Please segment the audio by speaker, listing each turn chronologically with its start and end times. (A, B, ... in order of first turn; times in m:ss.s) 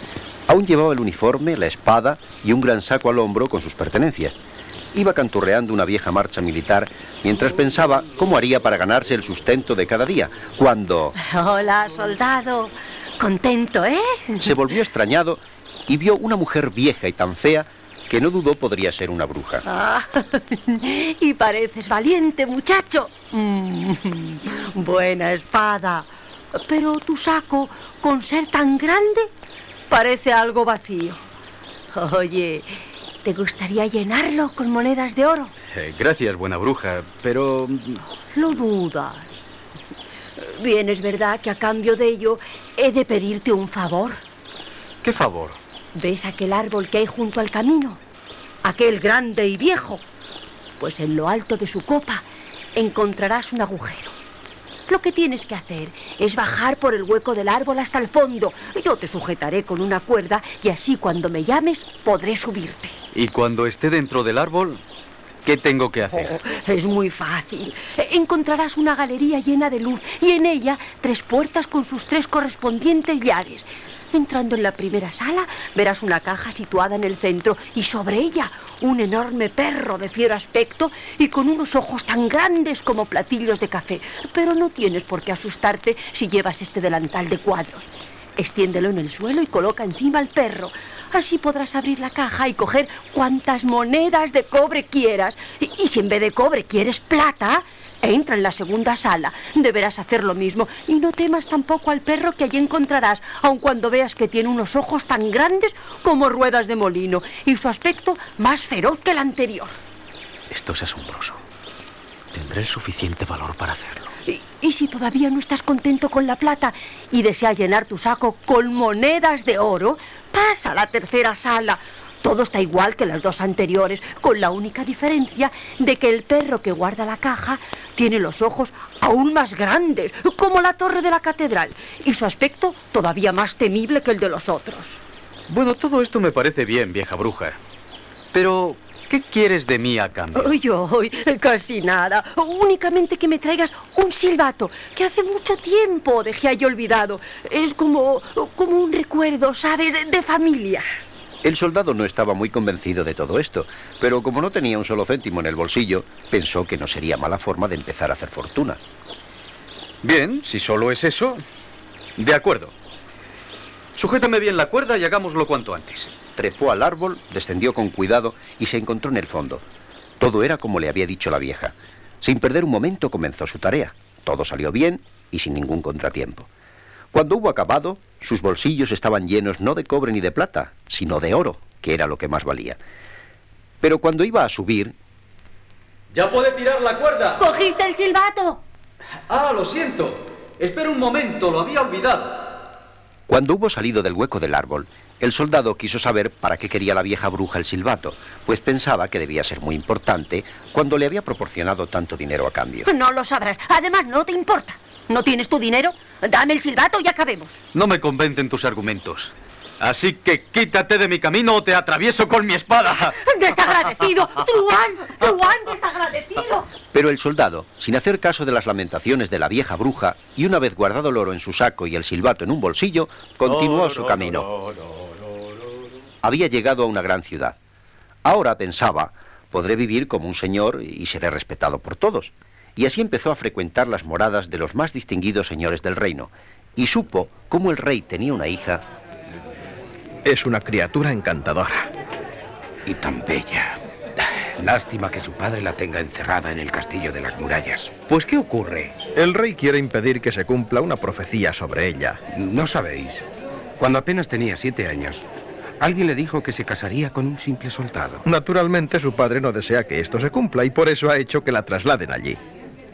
0:00.5-0:04.4 A
0:04.9-0:11.1 A
0:11.2-0:14.6 B
0:14.4-0:19.6 A
0:19.6-0:29.3 B
0:29.9-0:31.2 B
0:31.9-0:32.7 B
0:33.2-0:35.5 B
0:35.7-0:38.1 C
0:38.3-0:39.3 B
0:40.4-0:44.2 B
0:45.0-0:45.6 C
0:45.9-0:48.0 B
0:48.6-0:50.0 B
0:50.8-0:52.2 B
0:52.8-0:54.2 B
0:54.9-1:03.0 B
1:03.1-1:04.8 C
1:05.4-1:06.4 C
1:06.3-1:49.8 B
1:50.5-1:51.4 C
1:52.3-1:54.1 C
1:54.3-2:15.0 B
2:15.5-2:17.6 C
2:18.3-2:20.6 C
2:20.4-2:30.8 B
2:31.4-2:38.8 A
2:40.0-2:41.4 C
2:42.2-2:42.7 C
2:44.0-2:46.1 C
2:46.4-2:49.6 A
2:50.2-2:56.5 A
2:57.1-3:02.8 A
3:03.8-3:04.9 A
3:06.1-3:07.4 C
3:07.4-3:08.6 B
3:09.3-3:12.5 C
3:13.3-3:22.9 A
3:22.8-3:27.6 B
3:27.7-3:33.2 C
3:33.1-3:36.7 B
3:36.9-3:44.5 A
3:46.2-3:47.6 A
3:48.2-3:58.8 A
4:00.2-4:01.9 D
4:02.8-4:09.0 E
4:09.0-4:12.2 D
4:12.3-4:13.2 E
4:13.8-4:15.2 E
4:15.8-4:18.2 E
4:18.2-4:22.4 D